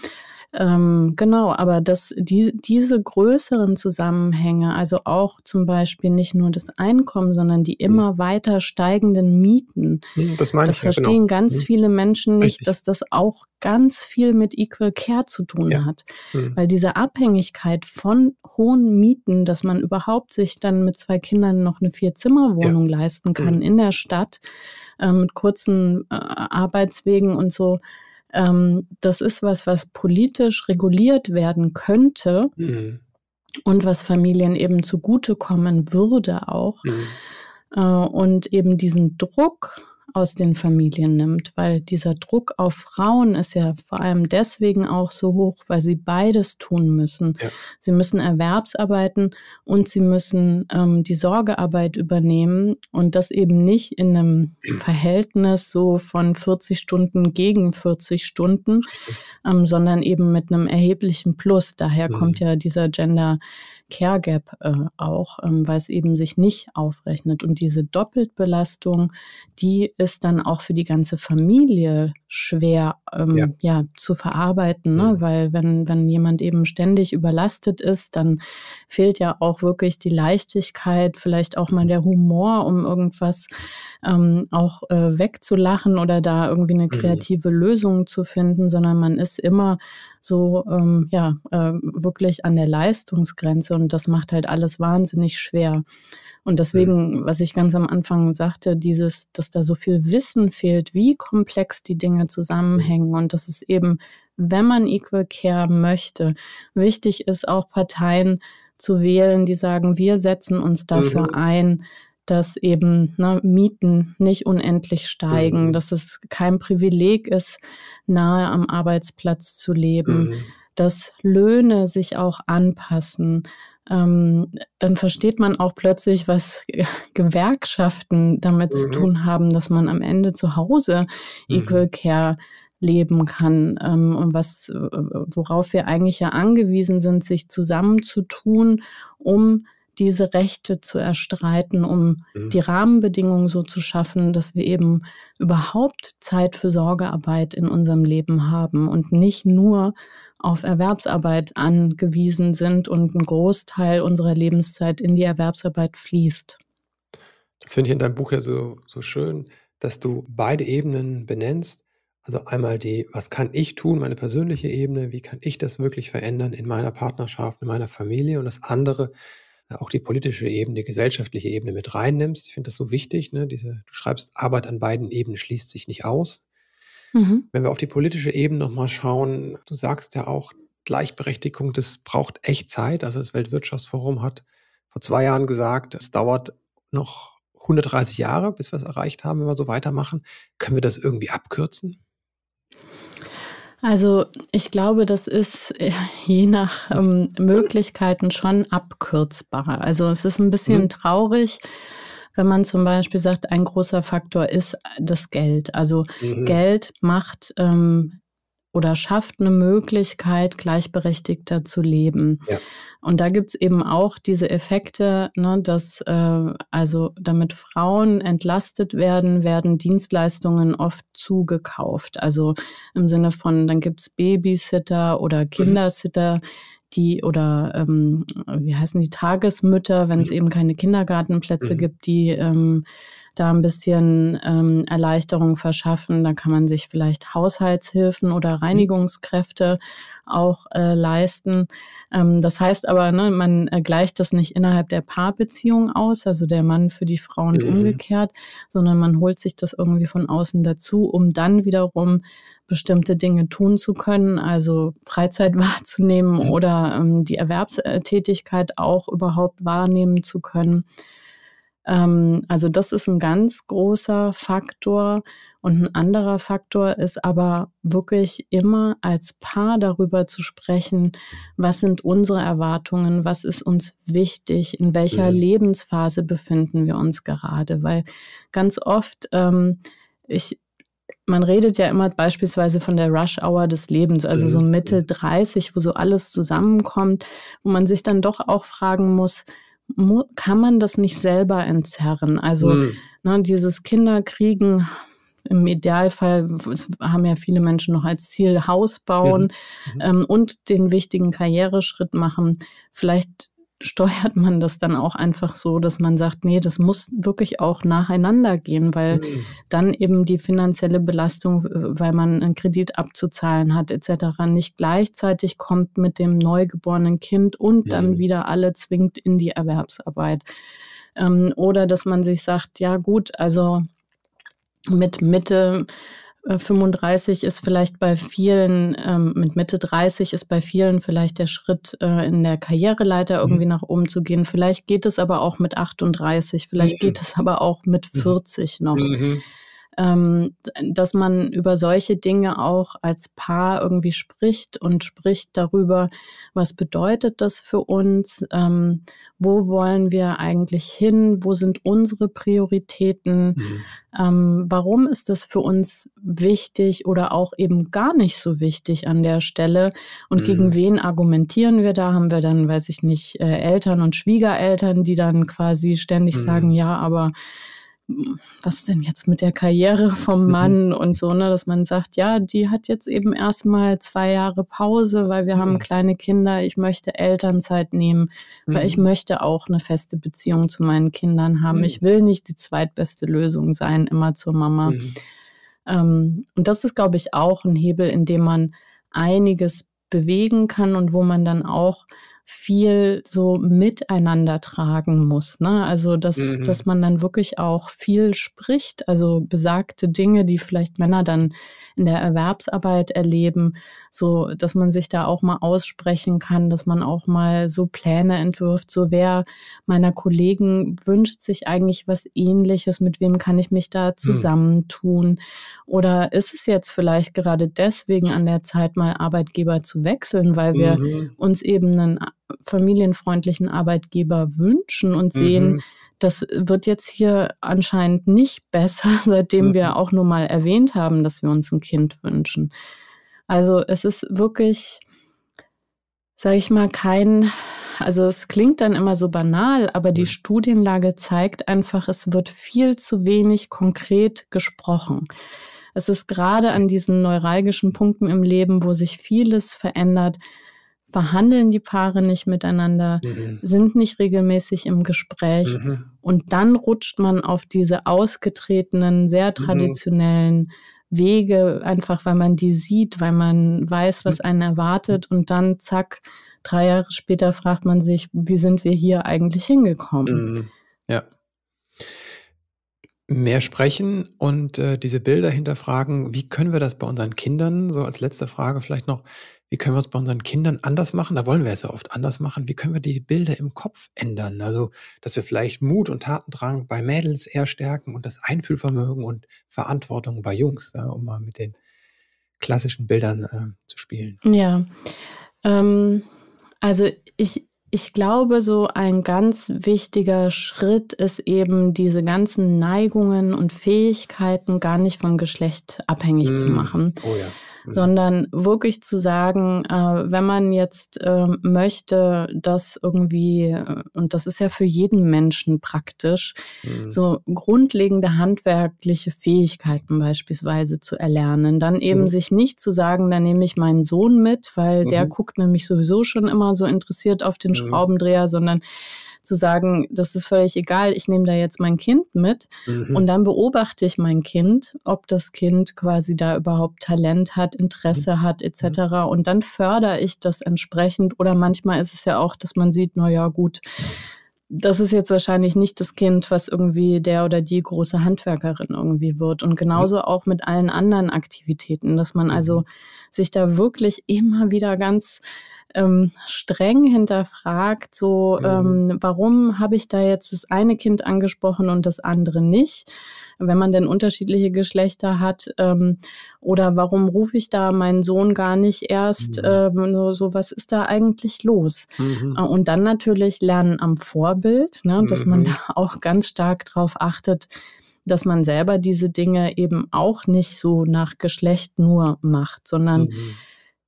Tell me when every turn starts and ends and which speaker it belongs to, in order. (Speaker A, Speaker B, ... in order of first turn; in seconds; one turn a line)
Speaker A: 0.5-10.0
Speaker B: 10.2-11.7
Speaker A: 10.6-24.4
Speaker B: 15.7-16.6
Speaker A: 25.0-27.8
Speaker A: 28.3-32.5
Speaker B: 32.6-33.0
Speaker A: 33.6-36.9
Speaker B: 36.8-37.2
Speaker A: 37.7-58.9
Speaker B: 58.9-59.2
Speaker A: 59.4-83.5
Speaker B: 62.1-62.4
Speaker A: 84.0-95.8
Speaker B: 86.9-87.2
Speaker A: 96.4-156.6
Speaker B: 110.9-111.3
Speaker B: 115.3-115.8
Speaker B: 120.0-120.5
Speaker B: 128.7-129.1
Speaker B: 131.5-131.8
Speaker B: 157.6-169.1
Speaker B: 169.7-176.4
Speaker A: 177.1-177.4
Speaker B: 177.5-192.0
Speaker A: 193.8-201.6
Speaker A: 202.3-208.2
Speaker B: 206.2-206.6
Speaker A: 208.7-212.4
Speaker A: 213.0-232.8
Speaker A: 233.3-260.9
Speaker B: 247.5-248.0
Speaker A: 261.9-280.6
Speaker B: 275.1-275.4
Speaker A: 281.3-320.4
Speaker B: 284.3-284.9
Speaker B: 292.6-293.0
Speaker B: 299.2-300.0
Speaker B: 309.1-309.5
Speaker B: 317.9-318.2
Speaker A: 321.1-323.8
Speaker A: 324.9-325.9
Speaker A: 326.4-339.1
Speaker B: 336.8-337.2
Speaker B: 338.9-339.4
Speaker A: 340.0-353.6
Speaker B: 353.6-353.9
Speaker A: 354.1-367.3
Speaker B: 360.4-360.8
Speaker B: 366.3-366.7
Speaker A: 368.1-385.0
Speaker B: 370.5-370.7
Speaker B: 375.6-375.8
Speaker B: 378.7-379.0
Speaker B: 381.7-382.0
Speaker B: 384.9-385.2
Speaker A: 385.9-432.7
Speaker B: 396.4-396.8
Speaker B: 420.7-421.3
Speaker B: 425.3-425.8
Speaker B: 429.6-429.9
Speaker A: 433.5-435.0
Speaker A: 436.4-445.3
Speaker A: 445.9-450.4
Speaker A: 451.1-470.4
Speaker B: 453.2-453.6
Speaker B: 455.6-456.1
Speaker B: 459.6-460.0
Speaker B: 470.2-471.2
Speaker B: 473.3-491.8
Speaker B: 492.6-494.4
Speaker A: 494.4-494.9
Speaker A: 495.6-496.2
Speaker A: 496.8-507.1
Speaker B: 506.4-508.1
Speaker A: 507.9-516.6
Speaker B: 516.8-517.2
Speaker A: 517.1-528.8
Speaker B: 525.0-525.3
Speaker B: 527.7-528.0
Speaker A: 529.4-543.8
Speaker B: 532.9-533.2
Speaker A: 544.7-555.4
Speaker B: 552.5-552.8
Speaker A: 555.9-563.1
Speaker B: 558.6-559.0
Speaker A: 563.6-577.7
Speaker B: 569.4-569.8
Speaker B: 572.2-572.6
Speaker B: 575.2-575.8
Speaker A: 578.2-583.3
Speaker B: 583.1-583.6